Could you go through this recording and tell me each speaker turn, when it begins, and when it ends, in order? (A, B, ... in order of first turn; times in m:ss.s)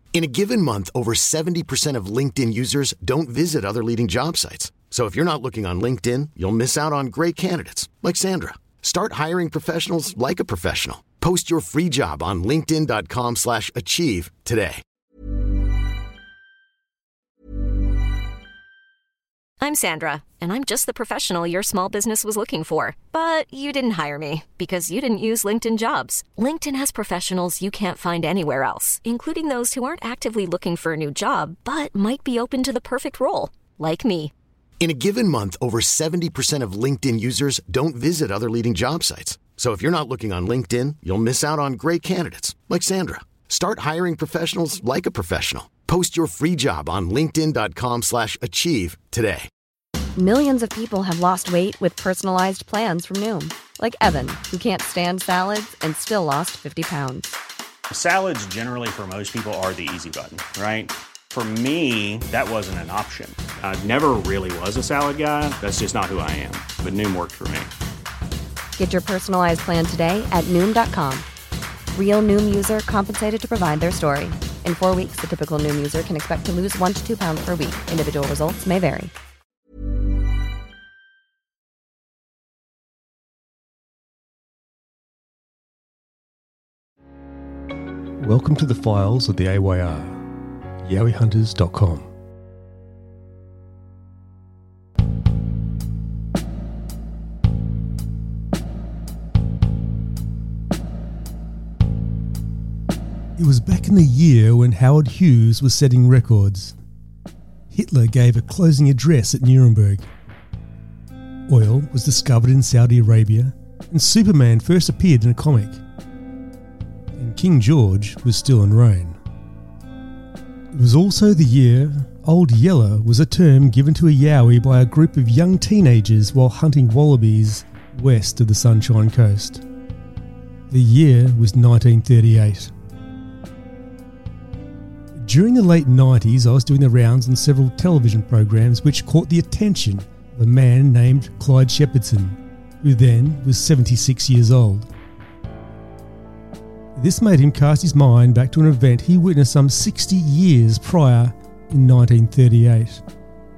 0:00.1-0:14.8 A
0:19.6-0:34.3 B
0:34.8-0:49.5 A
0:50.2-0:57.4 C
0:57.9-1:07.7 D
1:08.8-1:11.2 C
1:11.9-1:19.1 C
1:28.2-1:30.2 E
1:30.8-1:32.1 E
1:43.4-1:46.8 E
1:47.7-1:50.1 E
1:51.5-1:55.8 E
1:57.2-1:59.2 E
2:00.7-2:09.6 E
2:10.7-2:12.7 E
2:15.2-2:24.9 E
2:27.0-2:33.0 E